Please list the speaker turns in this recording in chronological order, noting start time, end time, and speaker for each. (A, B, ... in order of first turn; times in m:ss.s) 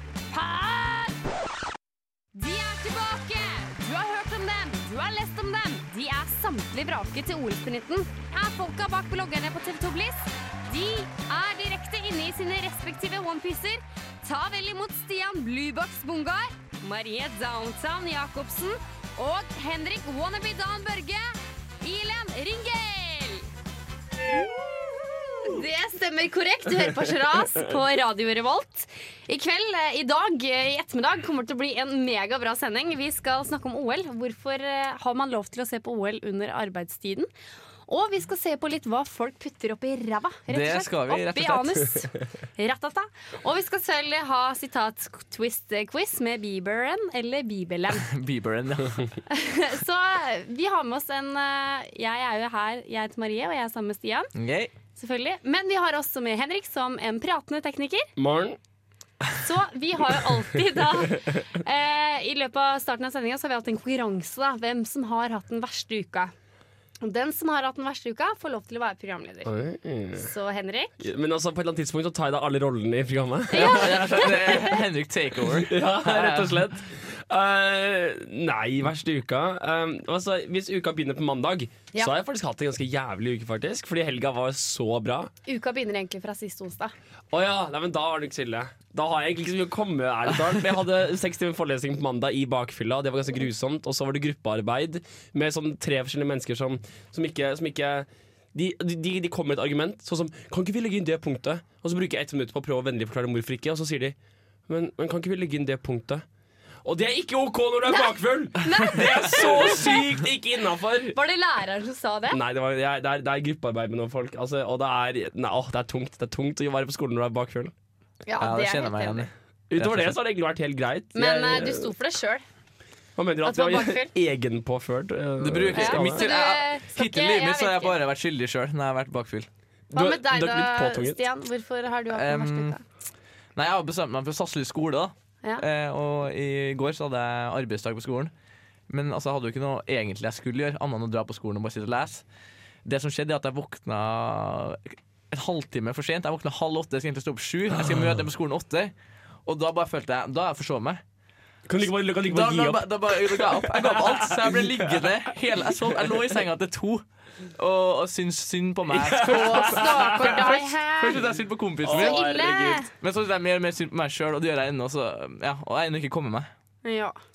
0:00.3-0:01.2 A
0:02.3-0:23.5 A
0:25.4-0:37.3 A
0:37.9-0:48.1 A
0:40.5-0:41.9 B
0:47.9-0:49.1 B
0:49.3-0:54.3 A
0:54.3-0:54.7 B
0:55.0-0:58.1 A
0:58.2-0:58.6 C
0:59.4-1:06.3 A
1:07.0-1:09.5 A
1:09.4-1:10.3 C
1:10.2-1:11.0 A
1:11.0-1:14.3 C
1:13.5-1:14.7 A
1:13.5-1:16.6 B
1:15.5-1:25.3 C
1:25.4-1:26.9 A
1:27.3-1:44.2 C
1:44.7-1:46.2 C
1:46.8-1:51.2 C
1:47.9-1:50.0 A
1:51.1-1:52.4 A
1:52.3-1:57.7 C
1:58.2-1:59.3 A
1:58.4-2:00.2 B
1:59.7-2:01.9 C
2:01.1-2:02.4 A
2:03.2-2:06.3 C
2:03.4-2:04.1 A
2:05.4-2:09.5 B
2:05.8-2:08.0 A
2:09.9-2:11.2 C
2:09.9-2:12.8 A
2:12.1-2:12.7 B
2:13.6-2:18.3 B
2:18.9-2:22.2 B
2:22.8-2:28.9 B
2:29.4-2:31.0 B
2:31.7-2:35.1 C
2:32.2-2:37.0 B
2:37.6-2:42.2 B
2:38.9-2:40.6 C
2:39.2-2:41.2 A
2:41.8-2:42.8 C
2:41.9-2:42.9 A
2:43.0-2:46.5 B
2:46.8-2:47.2 A